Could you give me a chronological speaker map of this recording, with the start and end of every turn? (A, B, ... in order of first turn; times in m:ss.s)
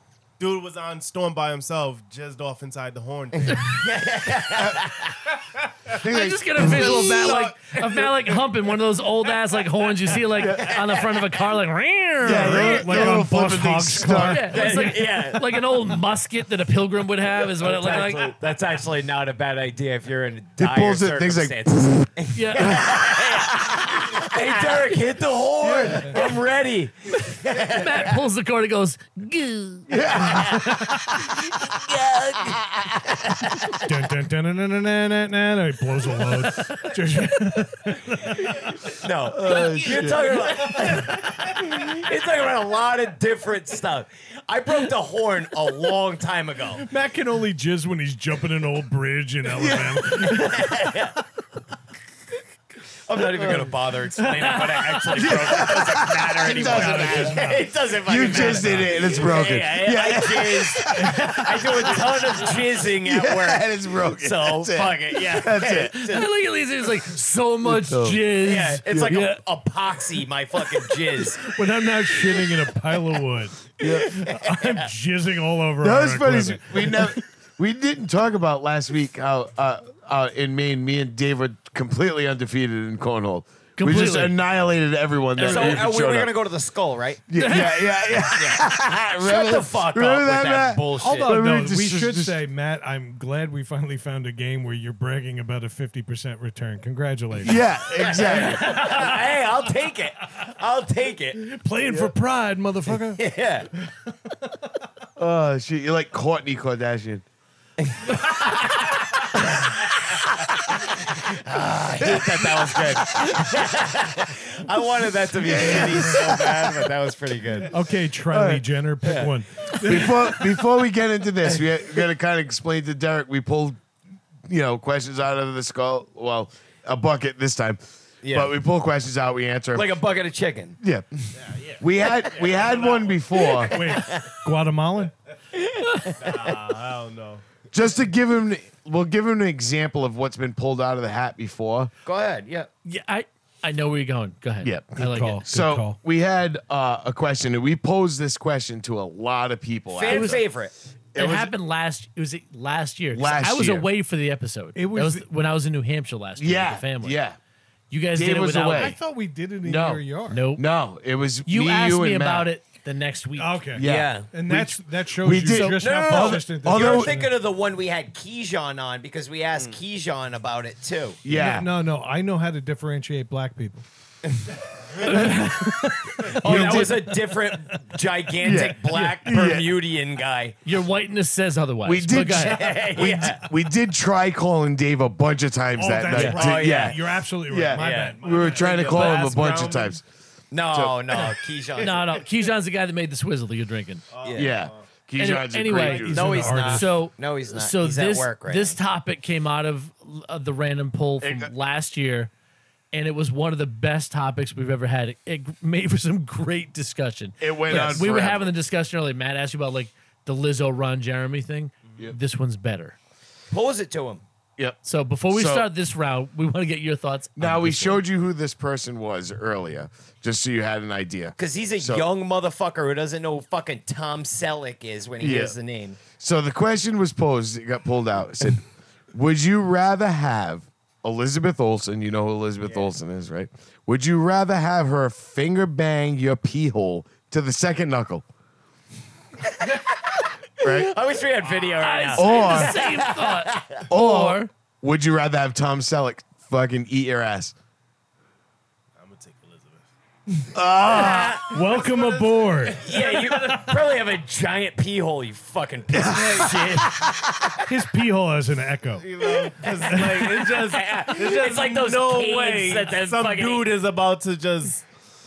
0:00.4-0:03.8 A
0:03.5-0:05.3 B
0:05.4-0:05.9 A
0:05.9-0:07.2 C
0:05.9-0:13.2 D
0:06.6-0:10.2 A
0:10.3-0:10.7 C
0:10.5-0:11.2 B
0:12.2-0:14.5 C
0:12.2-0:14.7 E
0:14.2-0:18.3 D
0:14.3-0:15.9 B
0:17.6-0:28.2 B
0:20.6-0:24.2 C
0:22.4-0:22.9 D
0:25.6-0:26.2 E
0:27.5-0:30.0 D
0:29.9-0:31.0 C
0:30.1-0:33.9 B
0:33.8-0:38.8 E
0:38.3-0:46.9 B
0:39.3-0:40.7 C
0:46.8-0:51.1 E
0:49.7-0:51.2 B
0:53.1-1:06.3 B
0:55.1-0:57.5 C
0:56.4-0:59.0 E
0:58.0-1:01.3 C
1:03.0-1:06.0 C
1:06.0-1:09.4 D
1:07.6-1:08.2 C
1:08.4-1:11.4 B
1:11.2-1:17.2 E
1:13.8-1:14.2 C
1:13.8-1:14.9 B
1:15.8-1:26.3 C
1:23.8-1:24.4 D
1:25.4-1:25.9 D
1:25.4-1:27.2 B
1:27.3-1:32.4 C
1:27.4-1:27.9 D
1:28.3-1:31.3 B
1:31.0-1:37.6 E
1:37.4-1:38.9 C
1:37.9-1:41.5 B
1:41.4-1:43.2 E
1:43.1-1:43.7 B
1:45.2-1:47.2 C
1:47.8-1:57.8 B
1:52.0-1:52.6 C
1:55.4-1:56.6 C
1:55.6-1:56.2 E
1:57.7-2:00.2 E
1:58.3-1:58.6 C
1:59.0-2:00.5 B
1:59.8-2:03.8 C
2:04.5-2:10.0 C
2:08.2-2:08.5 B
2:09.7-2:10.8 B
2:10.8-2:11.1 C
2:11.4-2:13.4 A
2:11.8-2:13.8 C
2:13.4-2:14.3 B
2:13.7-2:15.1 E
2:15.5-2:16.6 B
2:16.2-2:17.5 A
2:17.7-2:21.9 C
2:22.0-2:22.7 B
2:22.8-2:25.4 D
2:24.6-2:30.4 C
2:25.0-2:26.0 E
2:29.9-2:30.7 B
2:30.1-2:30.4 D
2:31.2-2:31.5 C
2:31.2-2:37.2 D
2:33.1-2:33.9 C
2:34.8-2:35.3 E
2:36.4-2:37.4 C
2:37.9-2:38.9 D
2:38.1-2:39.0 C
2:38.7-2:40.4 E
2:39.6-2:42.5 C
2:40.3-2:40.6 D
2:41.5-2:43.7 D
2:43.4-2:47.3 E
2:43.7-2:47.1 C
2:43.8-2:44.3 B
2:45.5-2:45.8 D
2:45.8-2:51.2 B
2:51.2-2:51.7 C
2:51.3-2:53.8 E
2:55.0-2:57.0 D
2:55.4-2:57.8 E
2:56.2-3:00.6 B
2:56.5-2:56.8 C
2:58.4-2:59.8 C
3:00.6-3:02.7 D
3:01.8-3:10.0 C
3:02.4-3:03.5 B
3:05.8-3:08.8 E
3:06.1-3:07.0 B
3:07.7-3:08.2 B
3:08.3-3:10.0 A
3:08.8-3:09.3 D
3:10.5-3:12.1 B
3:10.7-3:11.2 C
3:11.8-3:12.1 A
3:11.8-3:14.1 D
3:14.1-3:14.9 A
3:14.2-3:14.6 B
3:14.4-3:16.4 C
3:15.2-3:22.3 D
3:15.8-3:16.9 E
3:16.1-3:18.8 B
3:21.2-3:21.5 C
3:22.9-3:33.0 D
3:27.4-3:28.5 C
3:27.7-3:28.1 B
3:33.5-3:34.2 B
3:34.8-3:38.0 D
3:35.3-3:35.7 C
3:37.4-3:42.1 C
3:41.4-3:46.0 B
3:45.2-3:45.6 C
3:46.1-3:58.2 C
3:52.6-3:52.9 A
3:59.5-4:03.8 B
4:00.6-4:00.9 C
4:01.4-4:01.8 A
4:01.8-4:04.5 D
4:02.2-4:02.9 C
4:03.9-4:07.5 C
4:09.0-4:09.9 A
4:10.5-4:11.5 C
4:10.8-4:11.5 B
4:11.5-4:13.8 E
4:11.6-4:13.0 A
4:12.8-4:17.5 B
4:15.9-4:17.4 C
4:17.7-4:19.2 E
4:19.0-4:24.9 A
4:19.8-4:20.5 E
4:20.5-4:23.7 B